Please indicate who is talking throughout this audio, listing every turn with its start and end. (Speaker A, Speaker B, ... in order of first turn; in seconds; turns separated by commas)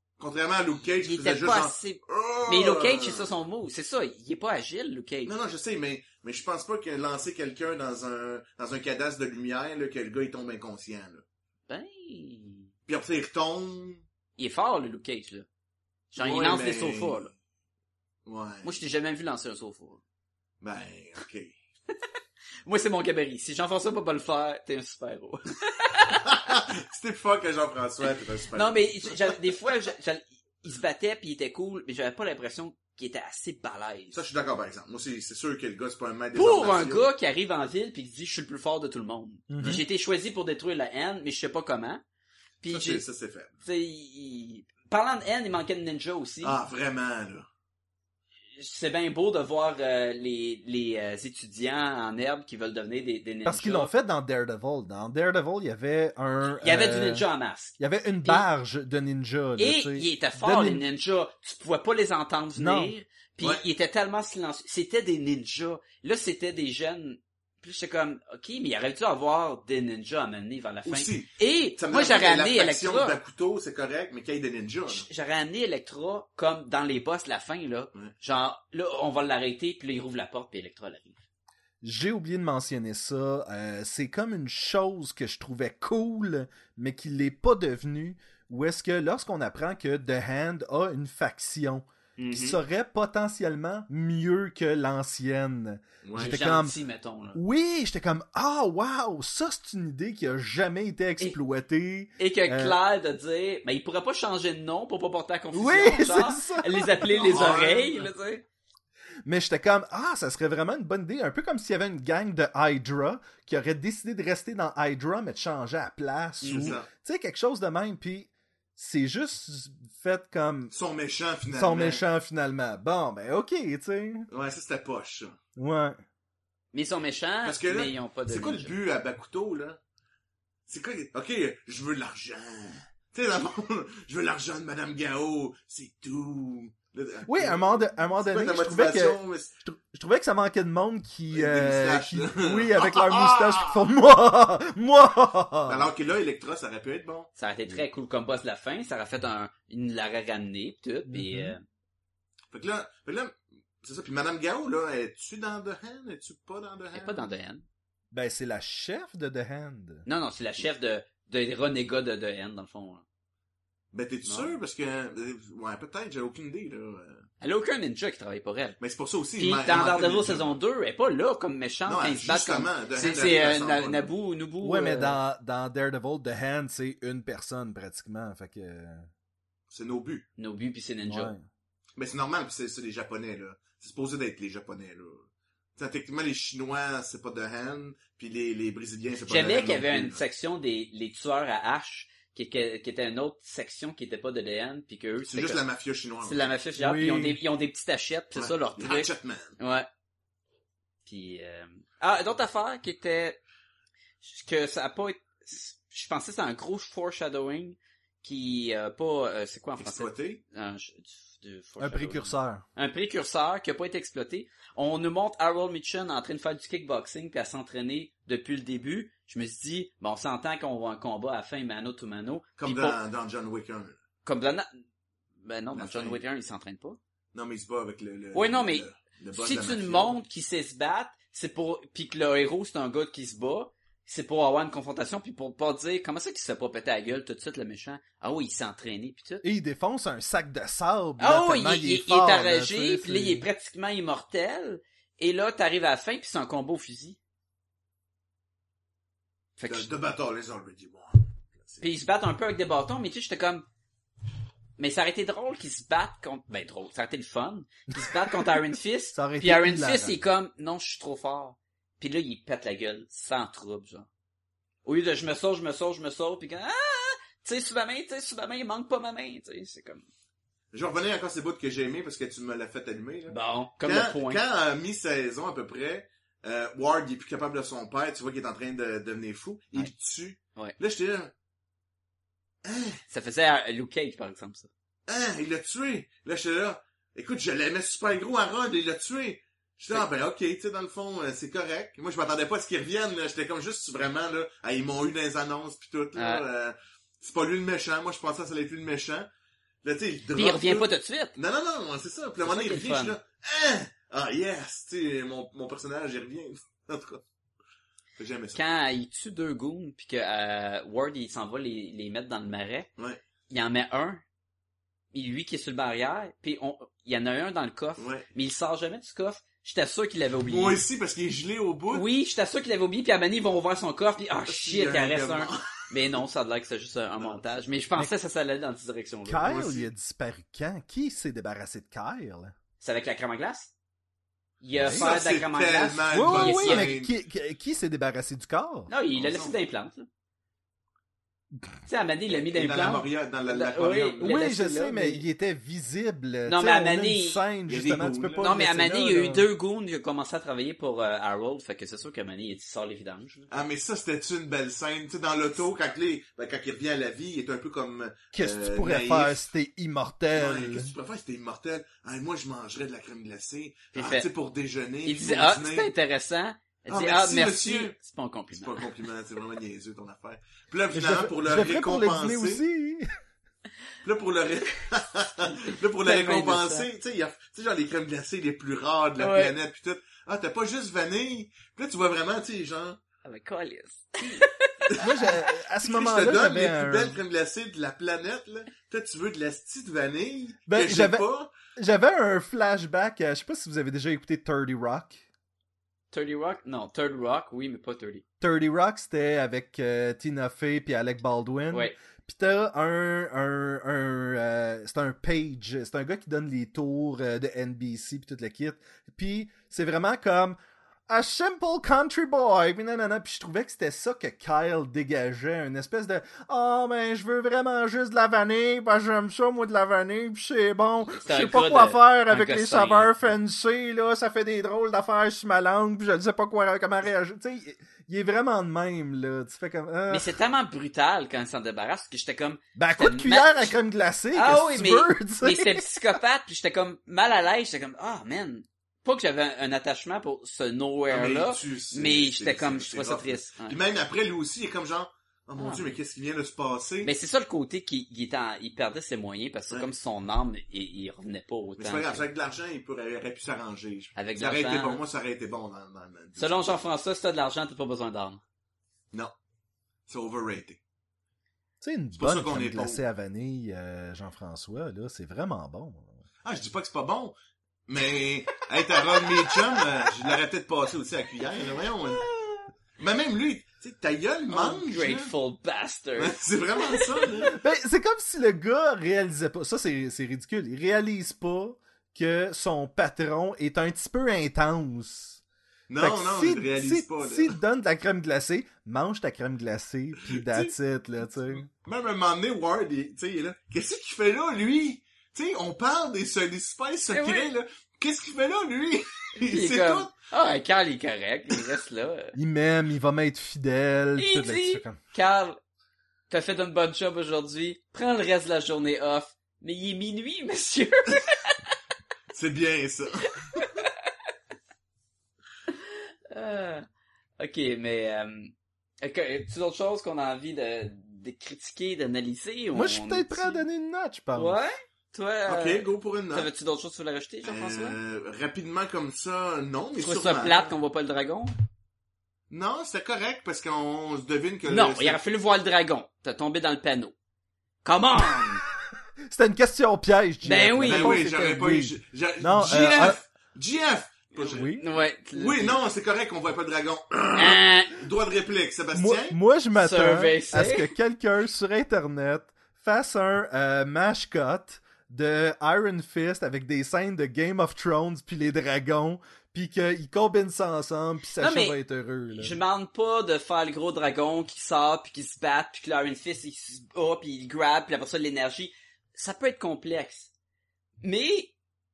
Speaker A: 0.2-3.3, Speaker B: 1.0-5.3, Speaker A: 5.2-11.2, Speaker B: 11.7-12.7, Speaker A: 12.9-14.0, Speaker B: 14.4-15.5, Speaker B: 16.1-17.3, Speaker A: 16.2-17.3, Speaker A: 18.2-18.7, Speaker B: 18.6-20.0, Speaker A: 20.6-21.6, Speaker B: 22.6-26.4, Speaker A: 26.1-29.4, Speaker B: 28.5-34.2, Speaker A: 34.1-37.0, Speaker B: 36.3-42.0, Speaker C: 39.5-39.8, Speaker B: 42.6-43.0, Speaker A: 42.7-43.5, Speaker B: 43.6-46.5, Speaker A: 46.4-47.5, Speaker B: 48.5-53.9, Speaker C: 53.4-57.2, Speaker B: 56.5-58.4, Speaker C: 57.8-60.8, Speaker B: 59.6-73.2, Speaker C: 62.5-62.9, Speaker A: 70.8-75.0, Speaker B: 74.9-81.2, Speaker C: 81.8-96.8, Speaker B: 92.2-92.6, Speaker A: 96.0-96.4, Speaker B: 96.2-97.4, Speaker C: 97.3-102.8, Speaker B: 102.2-108.4, Speaker C: 105.5-107.3, Speaker A: 107.2-108.1, Speaker C: 109.2-120.7, Speaker B: 116.4-116.8, Speaker A: 116.5-116.9, Speaker A: 120.7-122.0, Speaker C: 121.5-124.3, Speaker A: 124.3-125.4, Speaker C: 125.5-126.0, Speaker B: 126.7-128.7, Speaker A: 127.4-129.8, Speaker A: 130.7-139.5, Speaker C: 137.2-145.9, Speaker A: 141.3-143.8, Speaker A: 145.7-147.3, Speaker B: 147.4-151.6, Speaker C: 151.1-151.5, Speaker A: 152.5-157.3, Speaker B: 156.9-157.6, Speaker C: 158.1-160.1, Speaker B: 160.1-163.0, Speaker A: 163.9-167.2, Speaker B: 164.2-164.5, Speaker B: 167.4-168.8, Speaker A: 168.8-170.6, Speaker B: 169.4-175.2, Speaker A: 171.8-174.1, Speaker C: 174.6-179.1, Speaker A: 179.7-180.2, Speaker B: 180.4-181.3, Speaker C: 181.1-181.4, Speaker A: 182.0-190.2, Speaker B: 189.3-195.6, Speaker A: 195.2-196.4, Speaker B: 196.2-199.9, Speaker C: 196.8-197.4, Speaker A: 198.3-199.6, Speaker B: 201.1-203.4, Speaker B: 204.2-223.0, Speaker A: 209.8-210.4, Speaker C: 211.8-212.6, Speaker A: 222.6-224.0, Speaker B: 224.2-224.7, Speaker B: 225.4-227.0, Speaker A: 225.7-226.2, Speaker A: 227.3-230.2, Speaker B: 228.3-228.8, Speaker B: 229.3-239.4, Speaker C: 239.4-243.4, Speaker B: 241.2-247.2, Speaker B: 249.6-249.9, Speaker A: 249.7-251.8, Speaker B: 251.8-253.6, Speaker B: 254.8-264.1, Speaker C: 259.1-260.2, Speaker B: 264.8-270.0, Speaker A: 270.7-281.3, Speaker B: 273.3-274.4, Speaker A: 282.6-283.0, Speaker B: 283.1-284.7, Speaker A: 285.1-299.3, Speaker B: 296.1-296.4, Speaker A: 299.8-307.2, Speaker B: 300.3-301.3, Speaker B: 302.4-303.1, Speaker A: 308.2-308.6, Speaker B: 308.5-312.9, Speaker B: 313.5-314.2, Speaker B: 315.1-320.8, Speaker A: 318.0-318.2, Speaker A: 320.4-322.0, Speaker B: 321.9-329.8, Speaker A: 324.5-325.9, Speaker C: 329.2-332.5, Speaker B: 332.8-333.7, Speaker B: 334.6-336.9, Speaker C: 334.8-335.1, Speaker A: 334.8-337.1, Speaker C: 336.1-338.9, Speaker B: 338.9-340.1, Speaker A: 339.1-339.5, Speaker B: 341.9-345.2, Speaker A: 342.3-344.4, Speaker C: 344.2-349.4, Speaker B: 346.4-347.4, Speaker A: 347.7-348.5, Speaker B: 348.4-353.5, Speaker A: 353.5-359.5, Speaker C: 358.3-360.9, Speaker A: 360.3-365.9, Speaker B: 363.9-364.3, Speaker B: 365.0-368.9, Speaker A: 366.9-367.9, Speaker A: 368.5-372.6, Speaker C: 370.9-373.1, Speaker A: 374.0-383.0, Speaker B: 375.7-376.9, Speaker B: 379.2-379.5, Speaker B: 383.2-384.9, Speaker A: 384.9-391.5, Speaker C: 385.0-387.2, Speaker C: 390.7-395.2, Speaker B: 396.1-398.2, Speaker C: 398.4-430.3, Speaker B: 421.2-423.1, Speaker B: 430.1-433.7, Speaker C: 432.8-436.1, Speaker B: 434.3-443.8, Speaker A: 441.1-447.1, Speaker B: 445.6-445.9, Speaker B: 447.0-452.2, Speaker A: 451.8-456.7, Speaker B: 454.1-455.0, Speaker B: 456.4-458.4, Speaker A: 460.1-460.8, Speaker C: 461.8-466.2, Speaker A: 462.2-463.0, Speaker A: 466.4-467.4, Speaker A: 467.9-472.2, Speaker A: 473.0-475.3, Speaker B: 474.5-477.2, Speaker A: 476.2-477.6, Speaker C: 477.4-485.4, Speaker A: 485.9-487.6, Speaker C: 486.0-491.7, Speaker A: 490.2-490.7, Speaker A: 491.7-500.1, Speaker B: 497.1-497.5, Speaker B: 499.4-502.4, Speaker C: 502.3-505.0, Speaker B: 504.2-505.6, Speaker B: 506.3-511.7, Speaker A: 512.3-513.7, Speaker B: 513.6-513.9, Speaker B: 516.3-516.9, Speaker B: 517.4-523.6, Speaker C: 522.7-524.6, Speaker B: 524.3-528.0, Speaker A: 525.5-526.5, Speaker A: 527.4-530.7, Speaker B: 530.0-531.5, Speaker A: 532.5-535.2, Speaker B: 534.6-537.1, Speaker B: 537.8-538.6, Speaker C: 539.3-543.2, Speaker B: 540.4-541.4, Speaker A: 540.8-544.7, Speaker C: 544.5-544.8, Speaker B: 544.7-545.8, Speaker A: 545.3-549.4, Speaker B: 547.4-548.0, Speaker C: 548.9-562.6, Speaker B: 549.7-550.9, Speaker B: 561.4-561.8, Speaker B: 562.3-570.3, Speaker B: 571.0-571.5